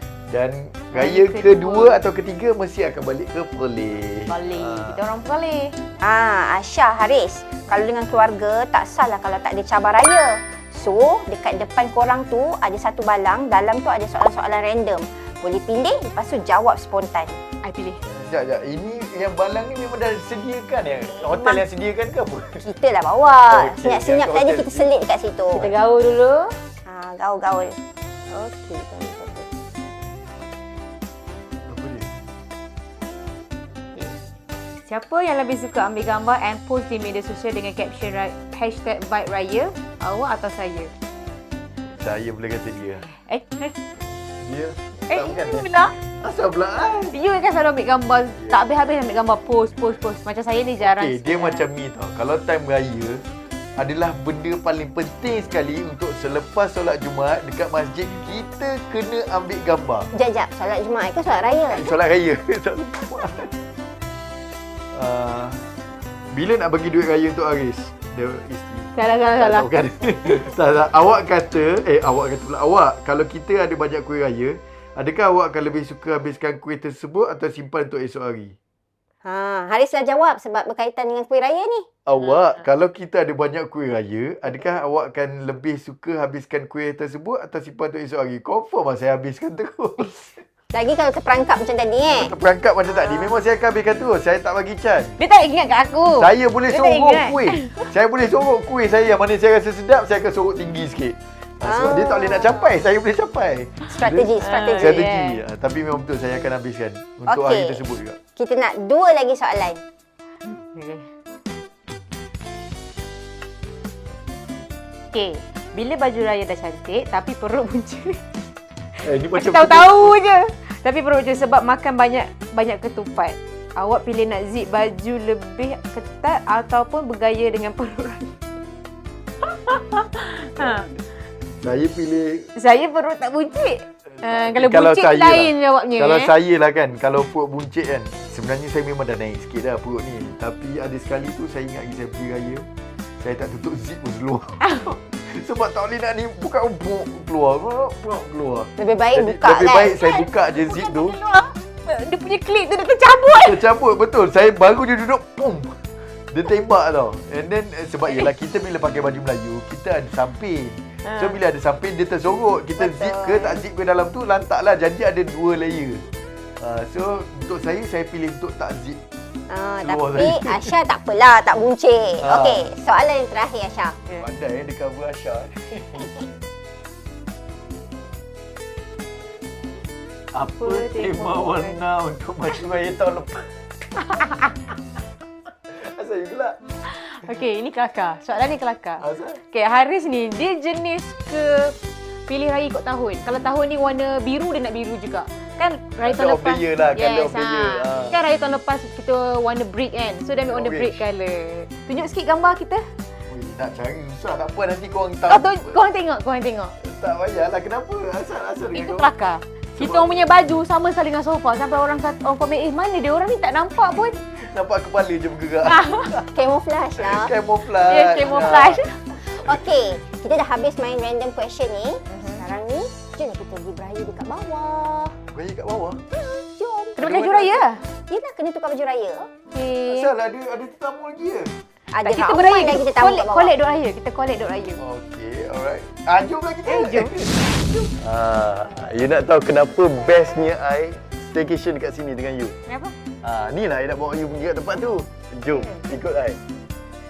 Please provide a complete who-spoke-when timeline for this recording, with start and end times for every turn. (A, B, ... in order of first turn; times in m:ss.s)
0:00.3-0:05.0 A
0:00.9-0:02.0 B
0:04.3-0:05.7 B
0:06.0-0:17.4 C
0:17.6-0:18.0 B
0:18.1-0:22.7 A
0:21.2-0:21.6 C
0:22.6-0:25.6 C
0:23.5-0:24.9 A
0:25.5-0:26.6 B
0:26.8-0:27.8 C
0:28.4-0:28.8 B
0:28.4-0:29.4 C
0:31.6-0:32.1 A
0:34.8-0:40.9 B
0:41.9-0:43.0 A
0:43.0-0:43.8 B
0:44.4-0:47.2 A
0:45.1-0:45.9 B
0:47.1-0:51.7 B
0:50.8-0:53.2 A
0:53.8-1:00.1 A
1:00.1-1:01.9 C
1:01.7-1:03.6 A
1:04.9-1:05.6 A
1:06.3-1:18.6 A
1:08.9-1:09.7 B
1:19.2-1:21.9 C
1:22.0-1:30.4 A
1:22.1-1:22.6 B
1:30.7-1:32.3 C
1:32.1-1:35.2 A
1:35.2-1:37.9 B
1:36.2-1:48.2 A
1:41.6-1:42.8 C
1:43.9-1:45.0 C
1:43.9-1:45.4 B
1:47.3-1:47.8 C
1:48.4-1:49.8 C
1:50.4-1:51.1 B
1:55.1-1:58.2 B
1:59.0-2:00.1 A
1:59.3-2:08.3 B
2:09.4-2:10.9 B
2:10.6-2:10.9 A
2:11.6-2:12.5 A
2:12.6-2:16.3 B
2:14.1-2:22.7 A
2:23.2-2:31.2 A
2:24.6-2:24.9 B
2:28.8-2:30.1 C
2:30.0-2:33.6 B
2:33.4-2:46.0 A
2:41.0-2:41.4 B
2:42.8-2:43.6 C
2:46.6-2:49.0 A
2:49.5-2:54.0 C
2:49.8-2:50.8 A
2:52.2-2:52.6 A
2:54.2-2:56.1 A
3:00.3-3:03.5 A
3:00.6-3:01.8 B
3:04.1-3:04.6 B
3:05.7-3:06.6 A
3:06.8-3:11.8 B
3:09.0-3:09.4 A
3:12.3-3:22.9 B
3:16.0-3:18.2 A
3:20.4-3:21.0 A
3:23.3-3:25.8 A
3:25.3-3:26.7 B
3:26.8-3:29.1 A
3:28.7-3:34.2 B
3:29.8-3:30.2 A
3:34.3-3:36.4 A
3:35.6-3:36.1 B
3:36.3-3:37.4 C
3:37.0-3:38.8 A
3:37.8-3:38.9 B
3:39.2-3:45.2 C
3:39.4-3:39.7 A
3:42.1-3:42.4 B
3:45.3-3:46.0 A
3:46.2-3:47.0 C
3:47.0-3:47.8 B
3:47.0-3:47.7 A
3:48.1-3:49.3 C
3:49.5-3:50.1 B
3:49.9-3:51.5 A
3:51.9-3:53.5 C
3:52.0-3:54.8 B
3:54.8-4:02.6 A
3:56.6-3:57.2 B
4:02.6-4:02.9 B
4:03.2-4:06.4 A
4:05.5-4:05.9 B